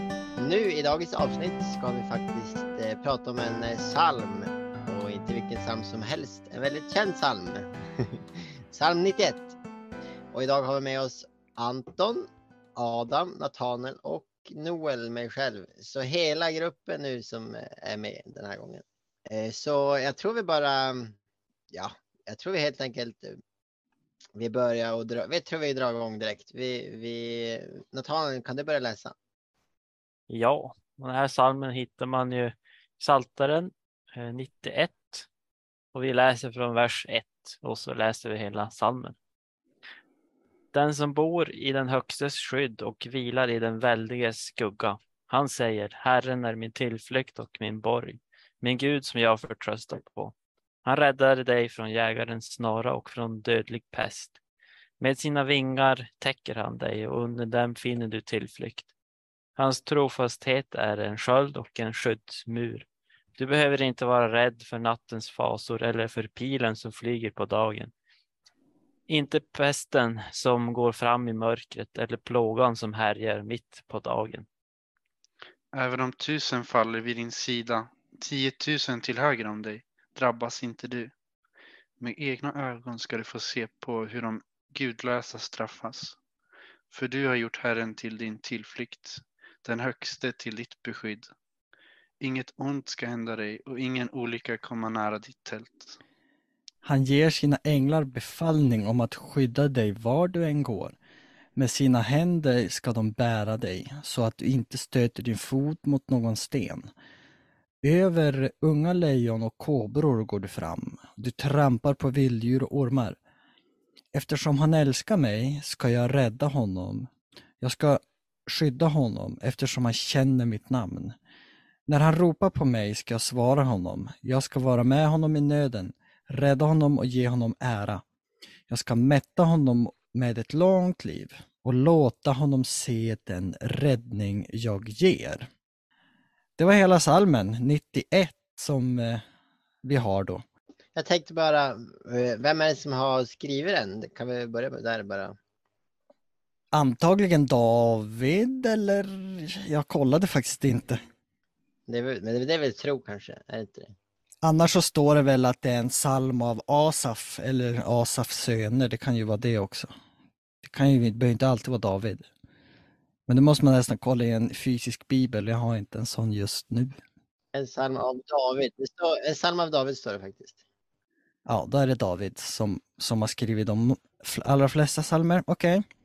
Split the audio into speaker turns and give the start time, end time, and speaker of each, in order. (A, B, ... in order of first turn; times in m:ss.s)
0:00.4-0:09.6 A
0:10.3-0:21.2 A
0:21.7-0:23.4 A
0:24.4-0:29.1 A
0:30.3-0:35.3 B
0:35.9-0:39.2 B
0:40.7-0:54.4 B
0:55.0-0:58.9 B
0:59.6-1:02.9 B
1:03.4-1:07.9 B
1:09.1-1:14.5 B
1:15.7-1:21.1 C
1:22.0-1:26.2 C
1:26.9-1:31.3 C
1:32.2-1:36.0 C
1:36.8-1:41.0 D
1:41.6-1:46.9 D
1:47.8-1:53.2 D
1:54.1-1:57.1 D
1:57.6-2:01.2 D
2:01.9-2:08.0 D
2:08.7-2:15.5 D
2:16.6-2:19.2 D
2:19.8-2:20.4 D
2:21.0-2:25.4 A
2:26.7-2:31.0 D
2:31.9-2:33.9 A
2:34.4-2:39.9 D
2:40.6-2:42.3 D
2:43.3-2:47.0 D
2:47.5-2:50.6 A
2:51.5-2:55.8 D